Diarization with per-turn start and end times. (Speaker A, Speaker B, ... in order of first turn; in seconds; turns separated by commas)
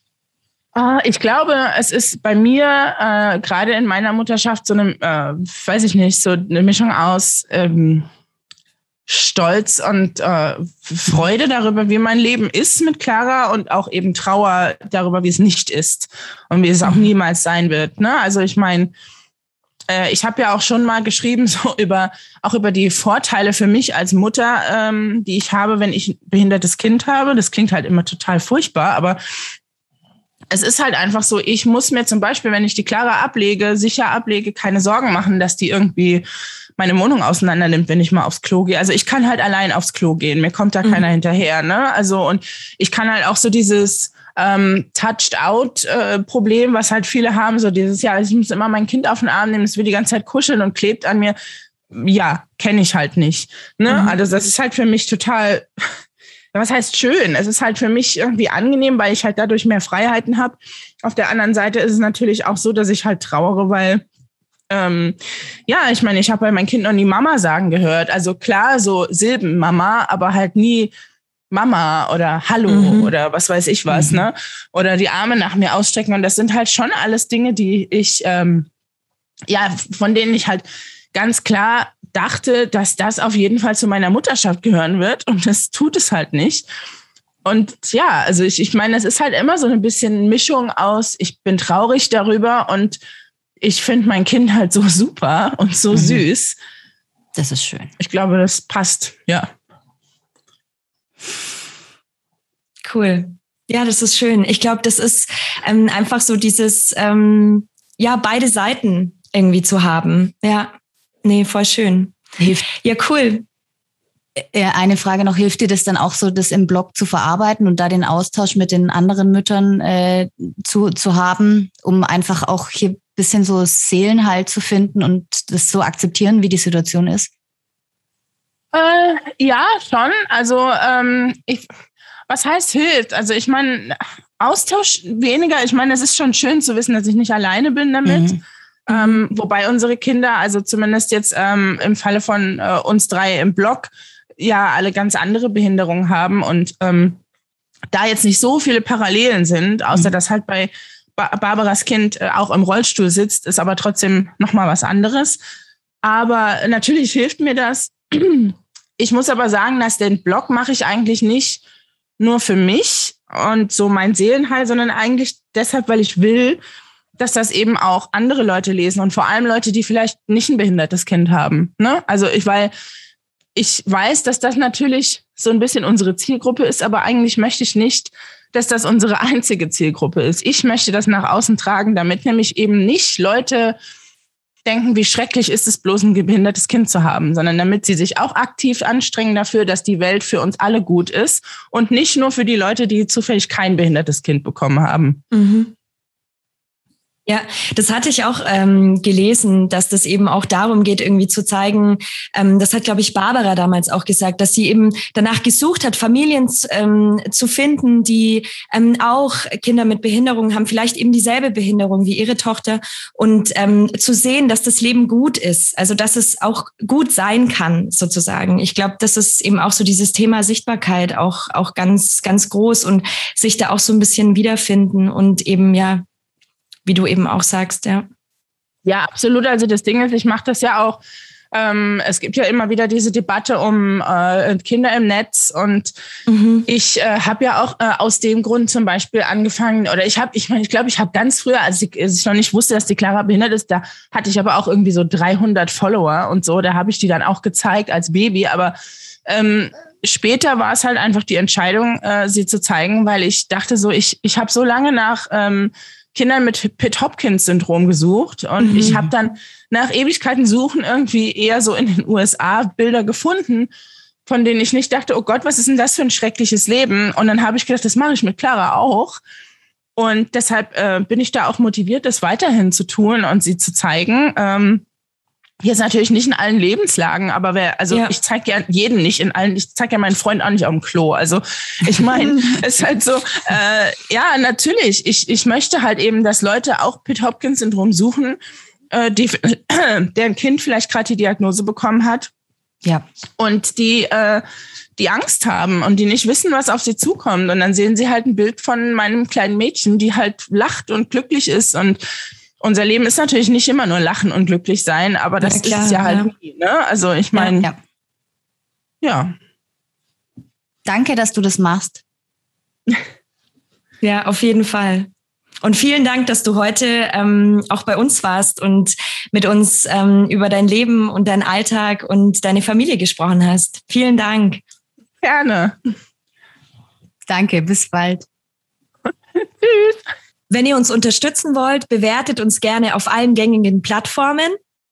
Speaker A: 0.8-8.1, Speaker A: 9.1-18.9, Speaker B: 16.8-17.1, Speaker A: 19.9-29.2, Speaker A: 30.5-36.2, Speaker A: 36.8-51.4, Speaker A: 51.9-55.7, Speaker B: 53.9-54.2, Speaker A: 56.5-64.0, Speaker A: 64.7-65.2, Speaker A: 65.7-70.9, Speaker A: 71.5-78.7, Speaker B: 72.7-73.1, Speaker B: 73.9-74.2, Speaker A: 79.5-86.7, Speaker A: 87.5-93.0, Speaker A: 93.6-96.6, Speaker C: 95.9-96.2, Speaker C: 97.4-97.9, Speaker A: 98.0-99.5, Speaker B: 102.8-112.2, Speaker C: 112.4-112.7, Speaker B: 112.8-113.5, Speaker C: 114.4-127.3, Speaker A: 128.7-131.7, Speaker A: 132.3-147.2, Speaker C: 138.1-138.4, Speaker B: 138.9-139.2, Speaker A: 147.9-155.4, Speaker A: 156.0-161.6, Speaker A: 162.2-166.6, Speaker A: 167.2-172.7, Speaker A: 173.6-183.8, Speaker A: 184.7-195.2, Speaker B: 195.3-195.7, Speaker B: 197.3-226.0, Speaker B: 226.9-228.1, Speaker A: 228.9-231.0, Speaker A: 231.5-235.9, Speaker B: 236.3-236.7, Speaker A: 236.7-248.8, Speaker A: 249.3-263.7, Speaker B: 258.6-259.1, Speaker A: 264.3-269.2, Speaker A: 270.0-274.8, Speaker A: 275.6-288.4, Speaker B: 277.9-278.1, Speaker A: 288.9-292.3, Speaker A: 293.4-294.4, Speaker A: 295.0-302.0, Speaker A: 302.6-307.7, Speaker B: 305.4-306.3, Speaker C: 307.4-307.8, Speaker A: 309.0-309.3, Speaker C: 310.9-312.0, Speaker B: 314.0-315.1, Speaker B: 315.6-324.6, Speaker A: 325.2-325.7, Speaker C: 327.3-328.3, Speaker A: 329.6-330.0, Speaker B: 330.5-334.6